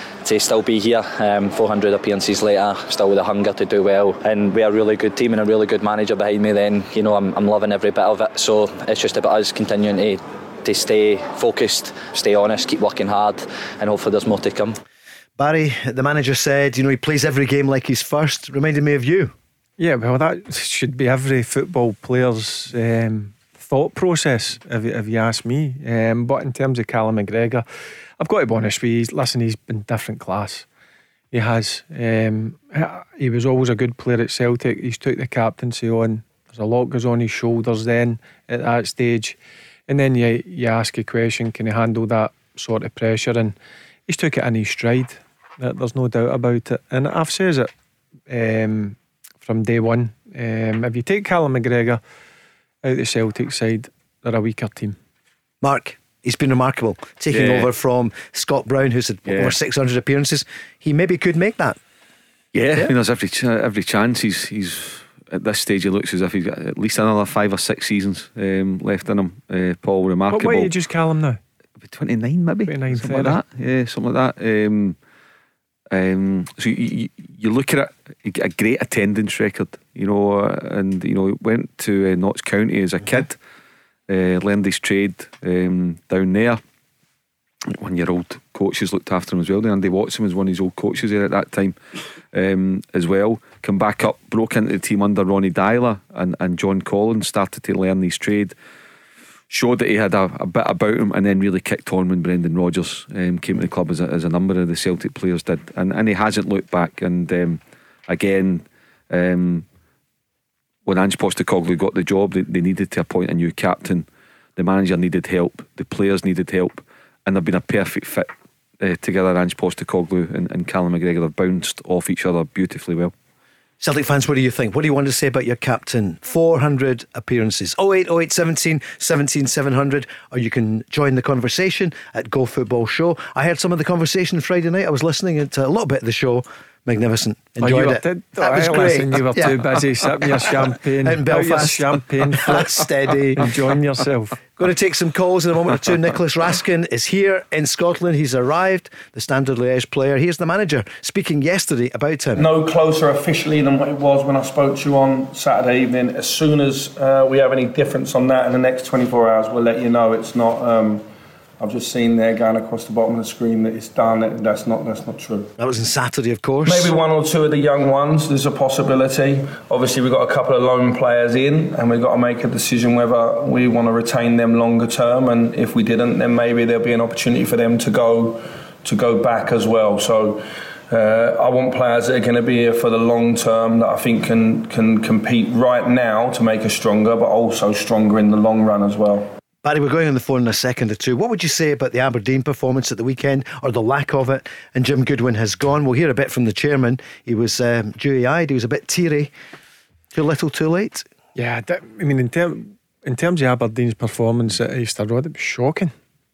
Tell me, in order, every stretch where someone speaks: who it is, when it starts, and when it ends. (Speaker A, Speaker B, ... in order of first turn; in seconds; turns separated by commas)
Speaker A: 0.2-14.8, Speaker B: 15.4-19.3, Speaker C: 19.8-27.6, Speaker C: 28.2-30.6, Speaker C: 31.3-43.5, Speaker C: 44.1-47.7, Speaker C: 48.3-52.0, Speaker C: 52.8-55.0, Speaker B: 55.6-61.8, Speaker D: 57.3-57.7, Speaker D: 59.2-59.5, Speaker D: 62.5-70.7, Speaker C: 70.3-71.4, Speaker D: 71.9-75.0, Speaker C: 72.7-73.4, Speaker D: 75.9-83.4, Speaker D: 84.1-86.6, Speaker D: 87.7-91.8, Speaker D: 92.3-98.5, Speaker D: 99.5-109.6, Speaker D: 110.8-118.3, Speaker D: 118.8-123.1, Speaker B: 123.8-139.6, Speaker C: 137.6-142.7, Speaker B: 140.5-143.5, Speaker C: 143.3-144.4, Speaker B: 144.6-152.4, Speaker E: 152.3-161.0, Speaker E: 161.6-165.5, Speaker B: 165.6-166.9, Speaker E: 166.7-189.3, Speaker B: 189.6-199.3, Speaker B: 200.1-201.1, Speaker C: 201.3-205.9